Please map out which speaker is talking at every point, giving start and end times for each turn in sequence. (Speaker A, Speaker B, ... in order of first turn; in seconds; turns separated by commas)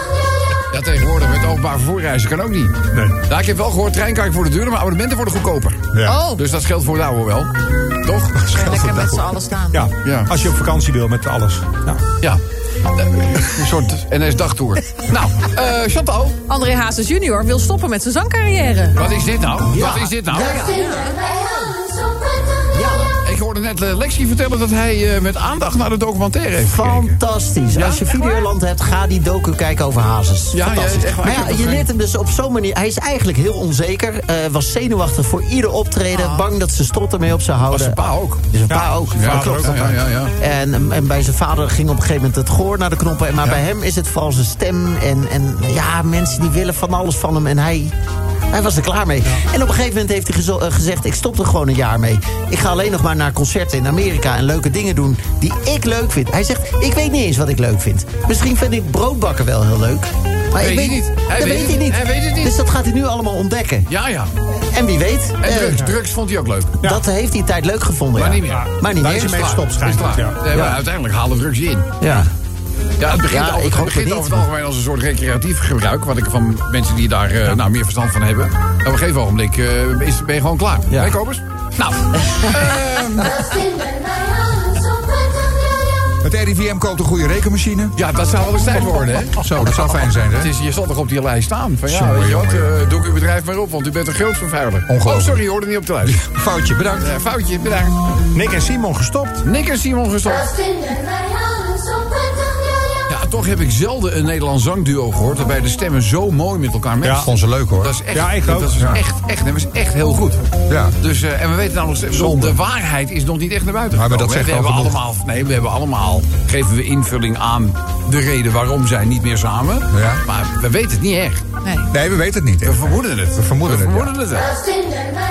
Speaker A: 0.7-8.4, Speaker B: 5.9-6.3, Speaker C: 6.0-6.4, Speaker C: 8.5-9.9, Speaker B: 8.5-9.3, Speaker D: 9.7-12.0, Speaker A: 10.0-10.3, Speaker A: 12.2-16.4, Speaker C: 16.5-19.0, Speaker A: 18.9-20.7, Speaker E: 19.7-20.9, Speaker C: 20.7-21.2, Speaker A: 21.2-21.7, Speaker E: 22.7-23.1, Speaker A: 23.2-27.2, Speaker E: 26.6-47.9, Speaker A: 27.7-28.1, Speaker A: 30.5-31.9, Speaker A: 36.1-36.4, Speaker A: 37.7-38.5, Speaker D: 38.7-40.0, Speaker A: 39.1-40.4, Speaker E: 48.5-63.9, Speaker A: 60.6-62.6, Speaker A: 63.9-64.3, Speaker E: 64.5-65.9, Speaker A: 65.4-66.8, Speaker E: 66.8-69.6, Speaker A: 68.2-71.9, Speaker D: 68.5-70.6, Speaker E: 70.5-70.8, Speaker E: 72.0-72.3, Speaker A: 73.0-83.4, Speaker E: 73.1-74.5, Speaker E: 80.9-81.2, Speaker B: 86.2-88.0, Speaker A: 88.0-96.2, Speaker B: 89.4-90.5, Speaker B: 91.9-92.8, Speaker B: 94.9-95.4, Speaker B: 96.0-97.1, Speaker A: 97.0-98.0, Speaker D: 98.3-99.4, Speaker A: 99.4-100.5, Speaker A: 103.1-110.4, Speaker D: 107.0-107.3, Speaker B: 107.2-108.0, Speaker D: 108.1-108.8, Speaker B: 110.7-110.9, Speaker A: 111.0-121.4, Speaker B: 113.9-115.0, Speaker B: 119.9-120.2, Speaker C: 121.6-121.9, Speaker B: 121.9-124.1, Speaker A: 122.6-124.5